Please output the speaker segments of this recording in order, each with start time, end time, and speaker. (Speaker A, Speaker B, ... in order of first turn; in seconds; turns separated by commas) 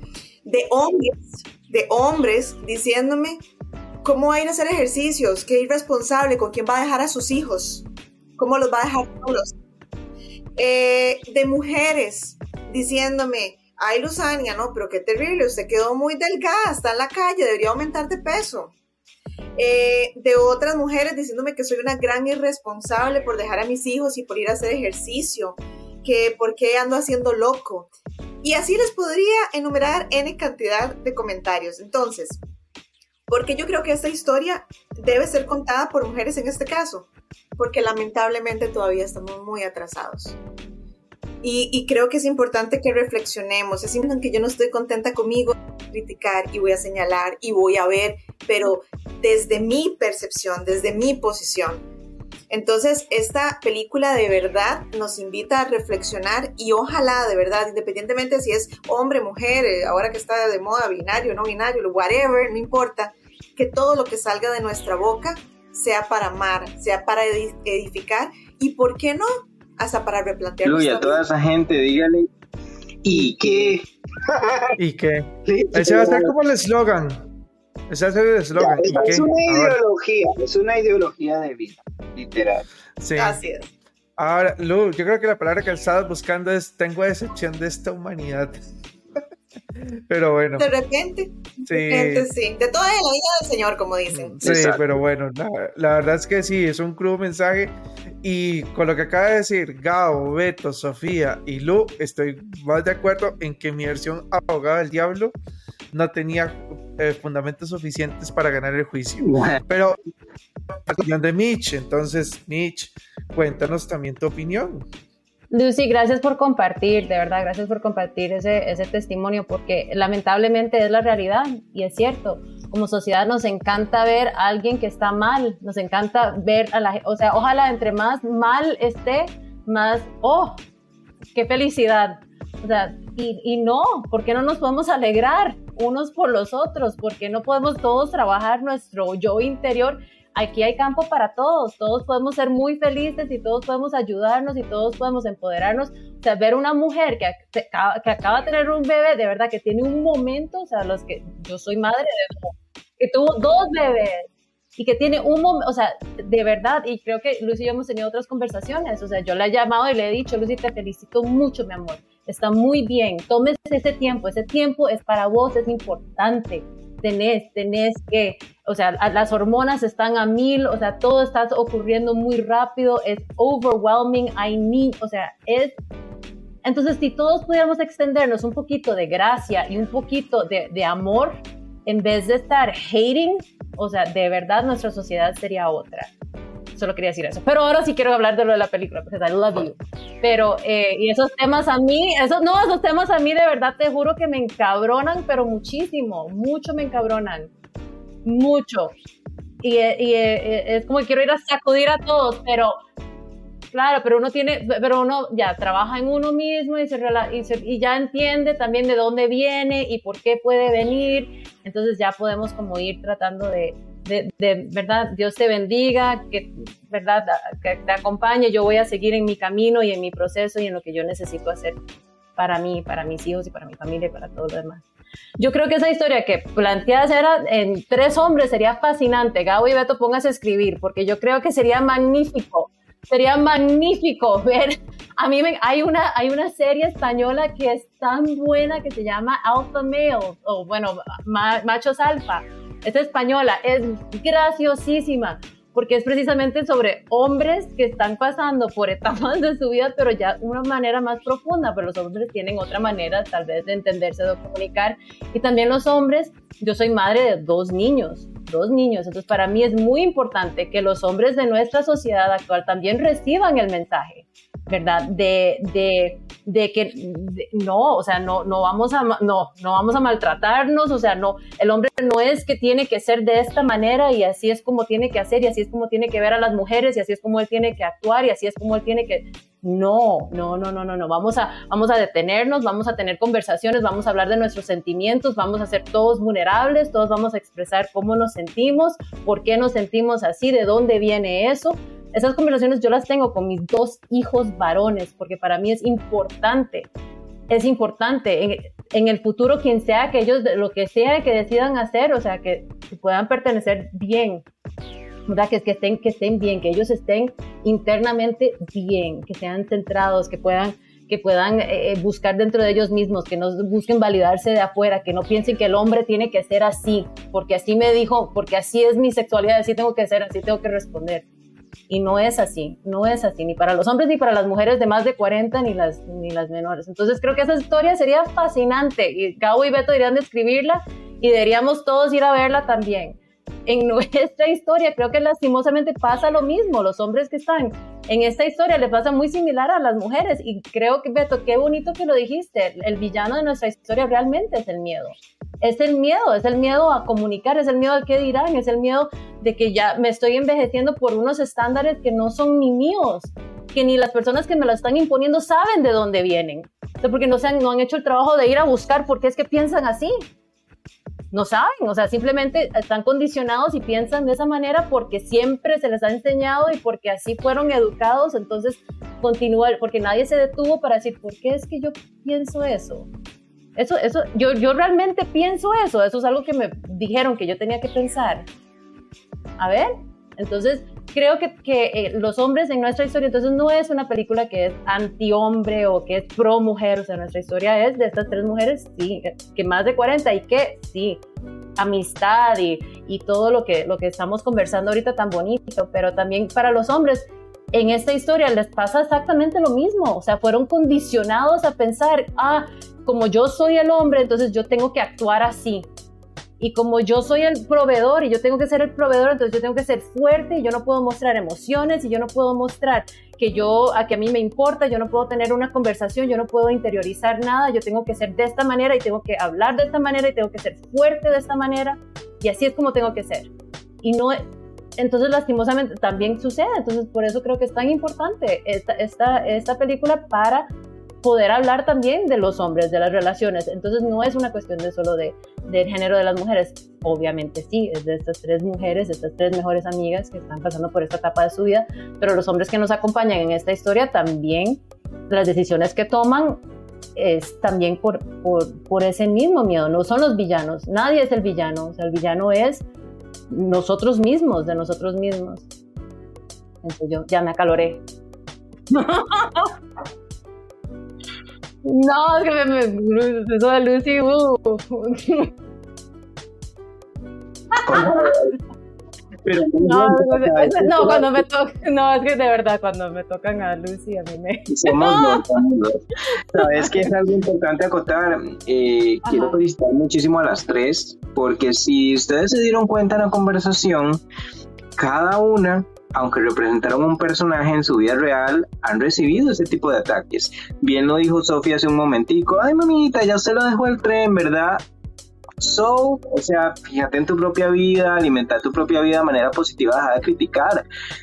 Speaker A: 0.5-3.4, Speaker A: 4.0-7.9, Speaker A: 8.4-9.5, Speaker A: 10.6-18.7, Speaker A: 19.6-27.9, Speaker A: 28.4-32.4, Speaker A: 33.3-40.4, Speaker A: 41.4-51.8, Speaker A: 52.5-71.2, Speaker B: 70.6-72.3, Speaker C: 73.0-74.8, Speaker B: 73.1-73.8, Speaker D: 74.8-77.2, Speaker C: 75.5-76.3, Speaker D: 77.9-79.8, Speaker C: 78.6-82.7, Speaker B: 78.9-79.2, Speaker D: 83.0-83.4, Speaker A: 83.2-83.7, Speaker D: 84.2-88.6, Speaker D: 89.8-90.7, Speaker A: 90.6-94.4, Speaker D: 91.7-92.3, Speaker D: 94.1-105.3, Speaker B: 94.4-94.9, Speaker D: 105.9-110.0, Speaker B: 109.2-109.6, Speaker D: 110.9-114.9, Speaker E: 115.5-130.6, Speaker E: 131.3-154.2, Speaker E: 154.8-175.8, Speaker E: 176.6-186.1, Speaker E: 186.8-197.5, Speaker E: 198.2-198.9, Speaker E: 199.6-202.8, Speaker E: 203.7-221.8, Speaker E: 222.4-224.8, Speaker E: 225.4-296.9, Speaker E: 297.5-304.4, Speaker E: 305.3-321.2, Speaker E: 321.9-360.2, Speaker E: 361.3-373.1, Speaker E: 373.8-378.5, Speaker E: 379.6-391.2, Speaker E: 391.8-405.9, Speaker E: 406.6-423.5, Speaker E: 424.0-424.4, Speaker E: 425.0-430.7, Speaker E: 431.2-446.6, Speaker E: 447.2-452.9, Speaker E: 453.5-455.7, Speaker E: 456.8-458.0, Speaker E: 458.9-459.7, Speaker E: 461.9-465.5, Speaker B: 467.9-468.6, Speaker E: 467.9-468.3, Speaker B: 469.4-471.4, Speaker E: 469.8-475.5, Speaker B: 474.7-484.2, Speaker E: 476.6-477.1, Speaker E: 479.3-479.6, Speaker B: 485.0-494.8, Speaker B: 495.6-500.9